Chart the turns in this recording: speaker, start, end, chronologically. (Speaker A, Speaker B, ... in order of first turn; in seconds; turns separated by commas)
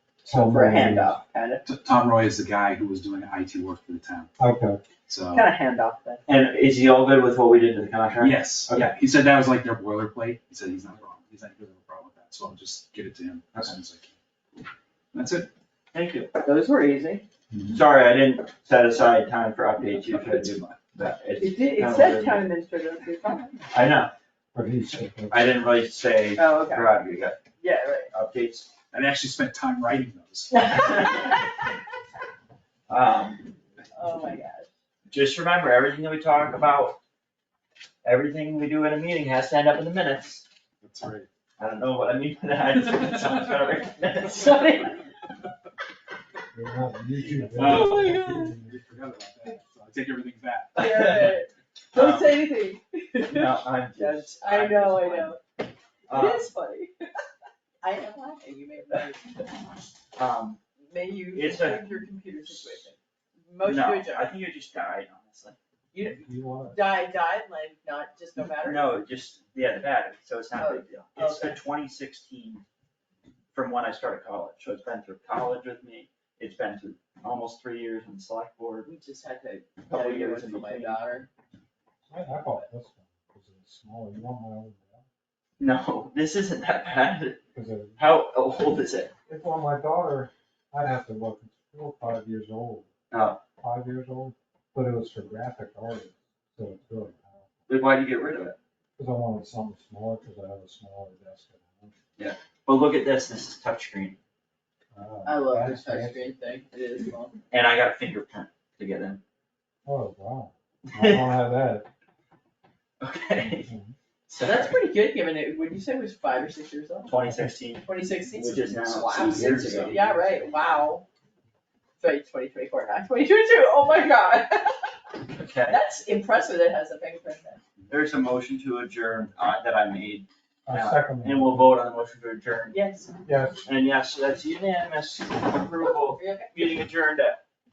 Speaker A: 0.2-1.6, Speaker B: 0.3-1.1, Speaker C: 1.6-4.3, Speaker B: 4.4-4.8, Speaker C: 5.1-5.5, Speaker A: 5.3-6.2, Speaker D: 6.3-8.9, Speaker C: 8.2-14.1, Speaker C: 15.1-15.5, Speaker D: 15.9-16.4, Speaker A: 16.4-17.2, Speaker C: 17.5-17.8, Speaker D: 17.7-22.4, Speaker C: 20.0-20.6, Speaker A: 21.4-23.6, Speaker D: 23.7-24.1, Speaker B: 24.5-25.4, Speaker D: 25.3-27.4, Speaker A: 26.4-26.9, Speaker A: 27.6-28.1, Speaker D: 28.1-28.7, Speaker C: 28.9-30.6, Speaker A: 30.5-31.4, Speaker D: 30.6-31.3, Speaker D: 32.9-33.5, Speaker A: 33.9-34.7, Speaker D: 35.1-37.0, Speaker D: 38.0-40.5, Speaker C: 40.8-41.3, Speaker D: 41.6-44.7, Speaker A: 44.3-45.0, Speaker B: 46.5-48.7, Speaker C: 47.5-51.4, Speaker A: 47.6-48.3, Speaker A: 50.7-55.4, Speaker D: 50.8-51.3, Speaker D: 51.9-52.4, Speaker D: 53.2-55.3, Speaker D: 56.1-56.5, Speaker A: 56.1-57.0, Speaker A: 57.8-59.5, Speaker D: 60.1-60.6, Speaker A: 60.9-63.0, Speaker D: 61.3-61.8, Speaker A: 63.5-64.3, Speaker D: 63.6-65.5, Speaker A: 65.9-68.9, Speaker B: 66.1-66.8, Speaker D: 68.6-72.6, Speaker A: 70.5-71.6, Speaker D: 73.5-78.9, Speaker A: 78.8-81.3, Speaker D: 79.9-81.1, Speaker B: 82.1-85.0, Speaker D: 85.6-87.4, Speaker B: 87.5-88.0, Speaker D: 88.0-89.1, Speaker B: 89.3-92.9, Speaker D: 93.1-93.4, Speaker B: 93.6-97.5, Speaker D: 97.7-98.5, Speaker B: 99.0-101.9, Speaker D: 102.2-104.2, Speaker B: 104.9-106.3, Speaker A: 105.2-107.3, Speaker D: 107.5-109.2, Speaker B: 109.8-111.9, Speaker D: 110.9-111.3, Speaker D: 113.0-113.7, Speaker B: 113.6-113.9, Speaker D: 114.3-114.8, Speaker A: 114.4-117.1, Speaker D: 117.1-120.0, Speaker A: 117.8-121.0, Speaker B: 119.2-120.5, Speaker C: 119.4-119.9, Speaker A: 122.0-125.1, Speaker D: 125.3-125.8, Speaker A: 125.7-127.6, Speaker D: 127.9-132.8, Speaker B: 130.7-131.7, Speaker A: 132.7-133.2, Speaker B: 133.2-133.7, Speaker D: 133.7-137.4, Speaker A: 136.1-136.5